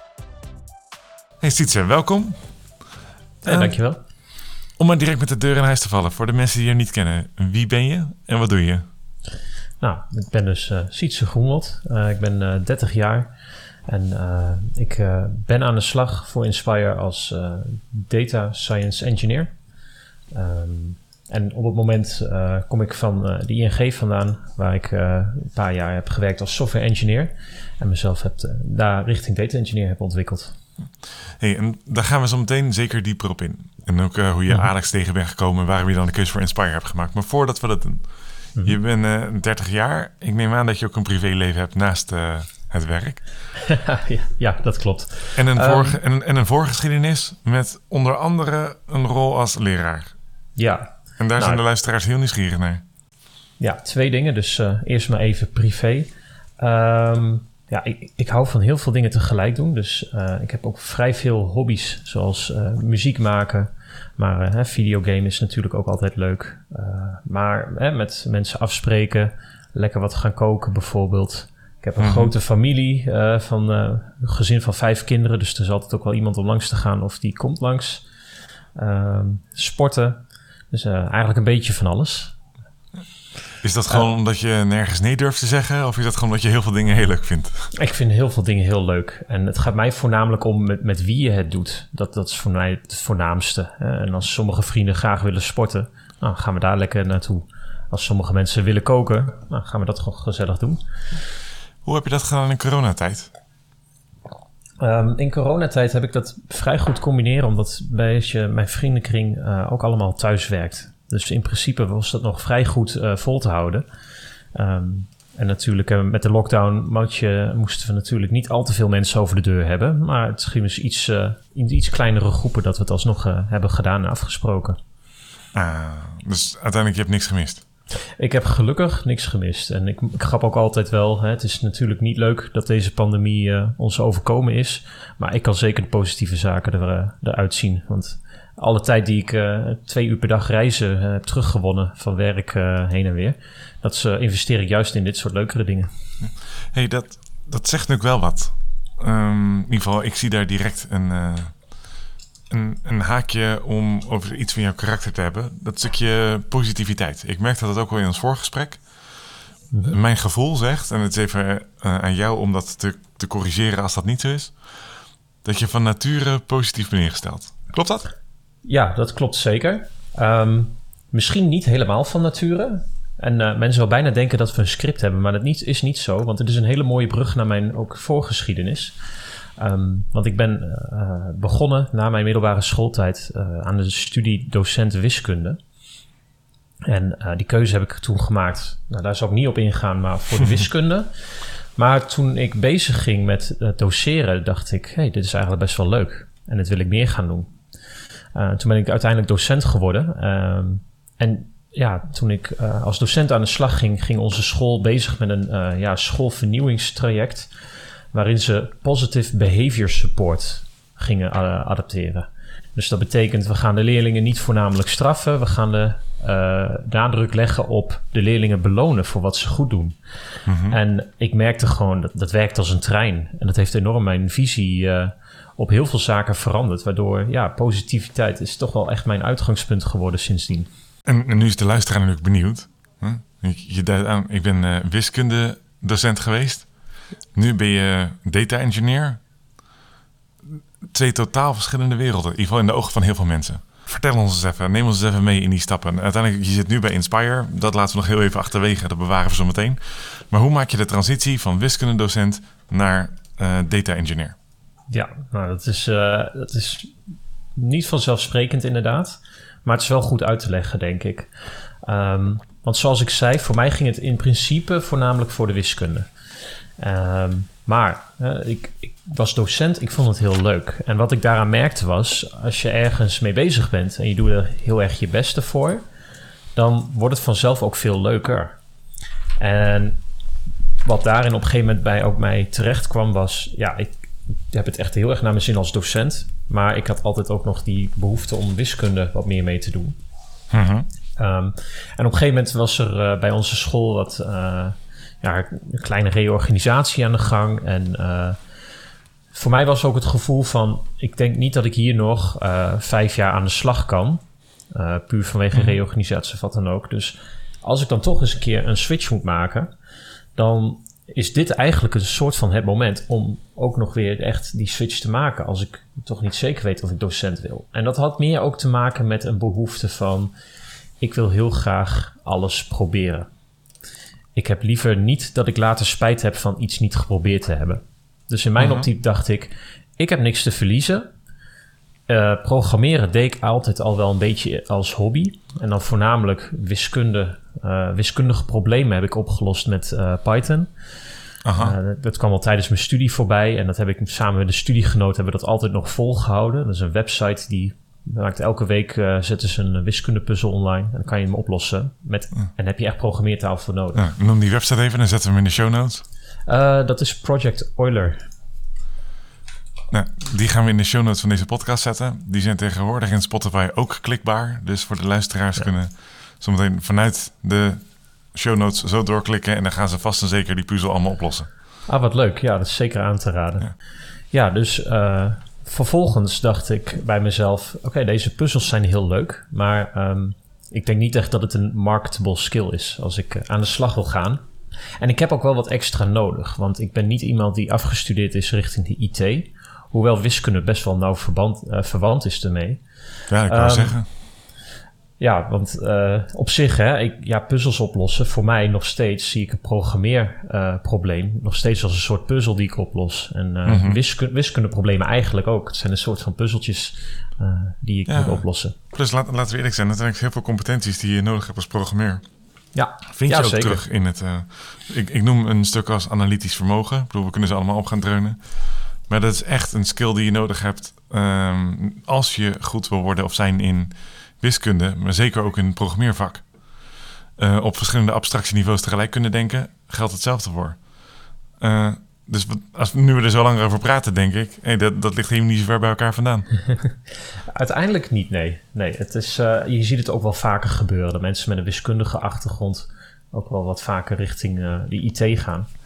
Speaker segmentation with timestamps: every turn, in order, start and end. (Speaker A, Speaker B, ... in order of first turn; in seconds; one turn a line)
Speaker A: 1.4-2.4
Speaker B: 3.4-4.0
Speaker A: 3.5-3.7
Speaker A: 4.8-8.8
Speaker B: 9.8-13.3
Speaker B: 13.9-19.5
Speaker B: 20.3-30.6
Speaker A: 31.4-38.0
Speaker A: 38.6-43.2
Speaker B: 43.6-46.0
Speaker A: 45.4-50.1
Speaker B: 50.6-51.6
Speaker A: 51.2-52.8
Speaker B: 53.6-78.0
Speaker A: 72.0-72.3
Speaker B: 78.8-82.4
Speaker A: 83.6-87.7
Speaker B: 87.7-100.8
Speaker A: 101.8-103.3
Speaker B: 104.8-113.8
Speaker B: 114.5-124.8
Speaker A: 125.5-127.6
Speaker B: 128.2-145.9
Speaker A: 146.7-151.5
Speaker A: 152.5-158.8
Speaker B: 159.7-160.0
Speaker A: 159.9-164.6
Speaker A: 165.4-168.1
Speaker B: 168.7-179.0
Speaker B: 179.6-185.6
Speaker B: 186.9-197.5
Speaker B: 198.3-207.5
Speaker B: 208.1-220.0
Speaker A: 220.5-220.8
Speaker B: 220.7-230.7
Speaker A: 231.1-236.7
Speaker A: 237.3-239.2
Speaker A: 240.5-254.3
Speaker B: 254.9-256.9
Speaker B: 257.6-261.3
Speaker B: 261.8-266.1
Speaker B: 266.8-275.8
Speaker B: 276.6-278.6
Speaker B: 279.4-280.0
Speaker B: 280.9-290.0
Speaker A: 290.5-290.9
Speaker B: 291.2-298.4
Speaker B: 299.3-309.7
Speaker B: 310.4-320.3
Speaker B: 321.0-323.3
Speaker B: 324.4-331.1
Speaker A: 328.6-328.9
Speaker B: 332.1-340.7
Speaker A: 341.4-341.8
Speaker B: 341.6-354.0
Speaker A: 353.9-356.0
Speaker B: 356.5-358.2
Speaker A: 359.9-371.5
Speaker B: 371.9-373.7
Speaker B: 374.3-384.4
Speaker B: 385.0-392.8
Speaker A: 393.3-394.1
Speaker B: 393.5-394.0
Speaker B: 395.2-408.8
Speaker A: 403.7-404.0
Speaker A: 408.1-412.2
Speaker B: 412.8-413.8
Speaker A: 413.1-418.4
Speaker A: 419.1-426.4
Speaker A: 427.4-430.8
Speaker A: 431.6-436.5
Speaker B: 437.5-445.7